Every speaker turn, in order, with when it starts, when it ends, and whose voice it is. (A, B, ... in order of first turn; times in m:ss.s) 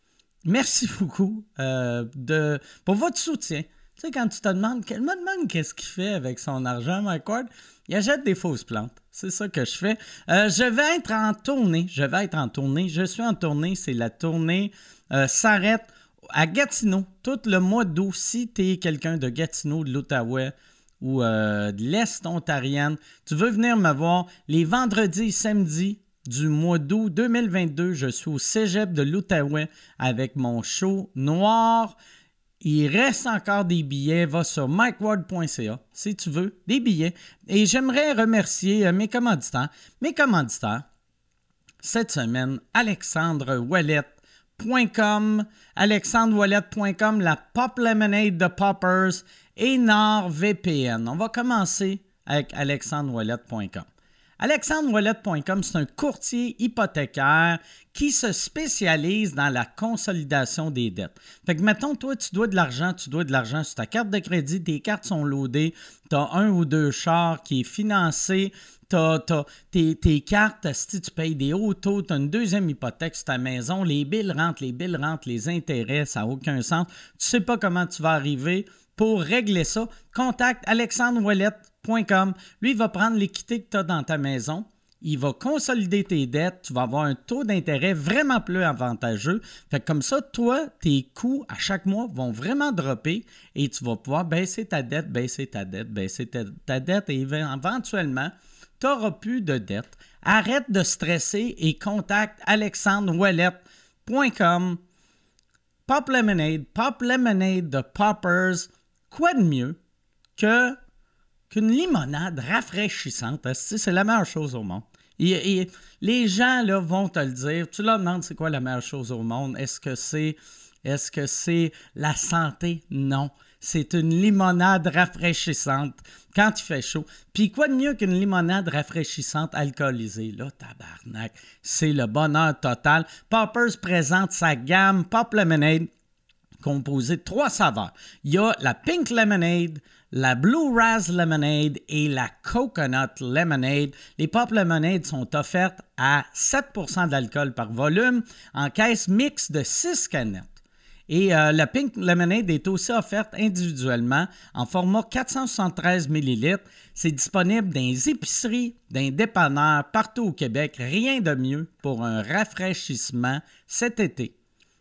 0:00.4-0:32.0 A
0:32.6-0:40.8 A
0:41.8-0:53.8 A
0:54.4-1:44.8 A
1:45.9-1:49.8 A
1:50.4-1:50.8 A
1:51.5-2:15.9 A
2:16.6-2:30.6 A
2:31.1-2:44.3 A